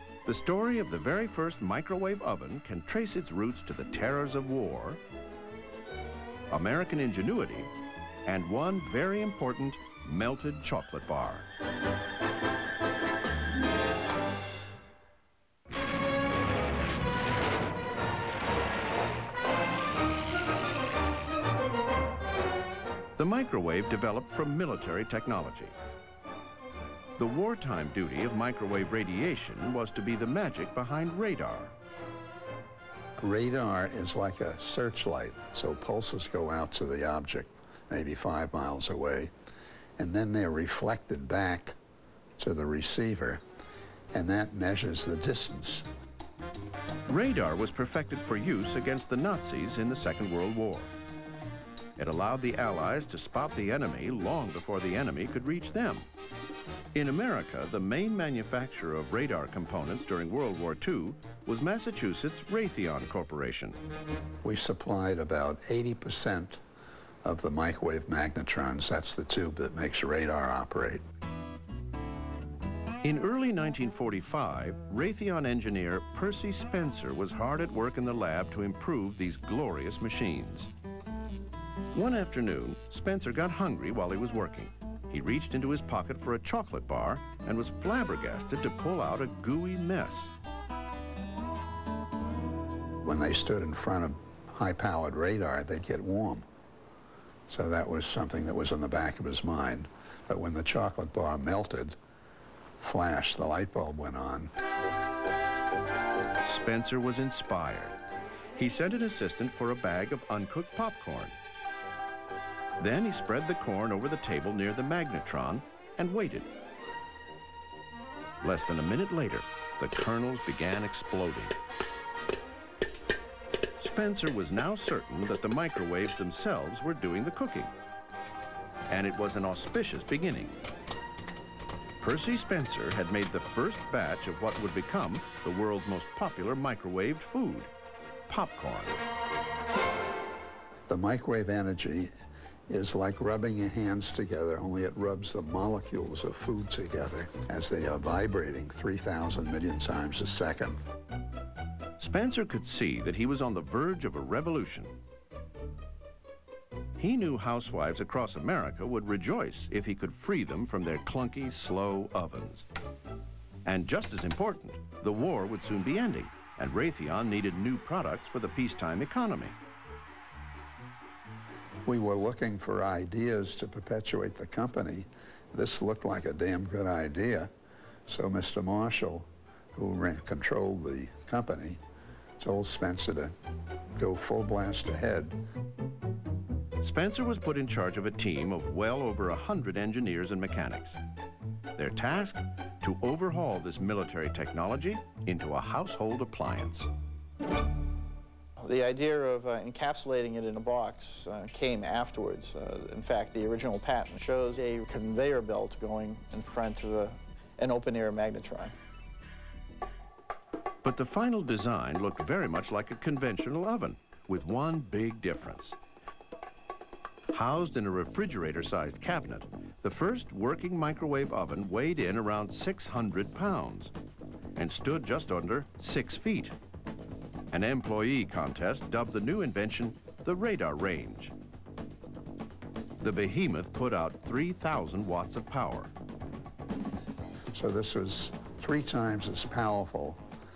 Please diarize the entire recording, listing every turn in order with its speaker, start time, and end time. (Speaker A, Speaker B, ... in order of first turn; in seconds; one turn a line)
Speaker A: 0.2-5.0
Speaker A: 6.5-7.7
Speaker A: 8.2-11.5
Speaker A: 23.2-25.7
Speaker A: 27.2-31.7
Speaker B: 33.2-39.3
Speaker B: 40.0-41.8
Speaker B: 42.4-43.4
Speaker B: 44.1-45.9
Speaker A: 47.1-50.9
Speaker A: 52.0-56.1
Speaker A: 56.9-63.8
Speaker B: 64.4-66.6
Speaker B: 67.2-71.0
Speaker A: 73.0-80.7
Speaker A: 81.9-90.3
Speaker B: 93.0-96.4
Speaker B: 97.5-102.0
Speaker B: 102.8-104.5
Speaker A: 106.4-108.0
Speaker A: 108.5-111.3
Speaker A: 112.8-116.5
Speaker A: 118.4-121.5
Speaker A: 123.8-127.7
Speaker A: 128.9-130.6
Speaker A: 132.0-137.7
Speaker A: 138.3-139.0
Speaker B: 140.9-142.1
Speaker B: 142.7-150.8
Speaker A: 152.0-154.9
Speaker A: 157.0-162.7
Speaker A: 163.6-169.6
Speaker B: 171.8-177.5
Speaker B: 178.1-181.8
Speaker B: 182.4-183.3
Speaker B: 184.0-185.4
Speaker A: 186.8-191.0
Speaker A: 191.8-196.9
Speaker C: 198.6-208.7
Speaker A: 210.8-215.8
Speaker A: 217.3-223.9
Speaker A: 224.5-226.6
Speaker A: 227.5-231.3
Speaker A: 233.0-235.9
Speaker B: 237.5-240.2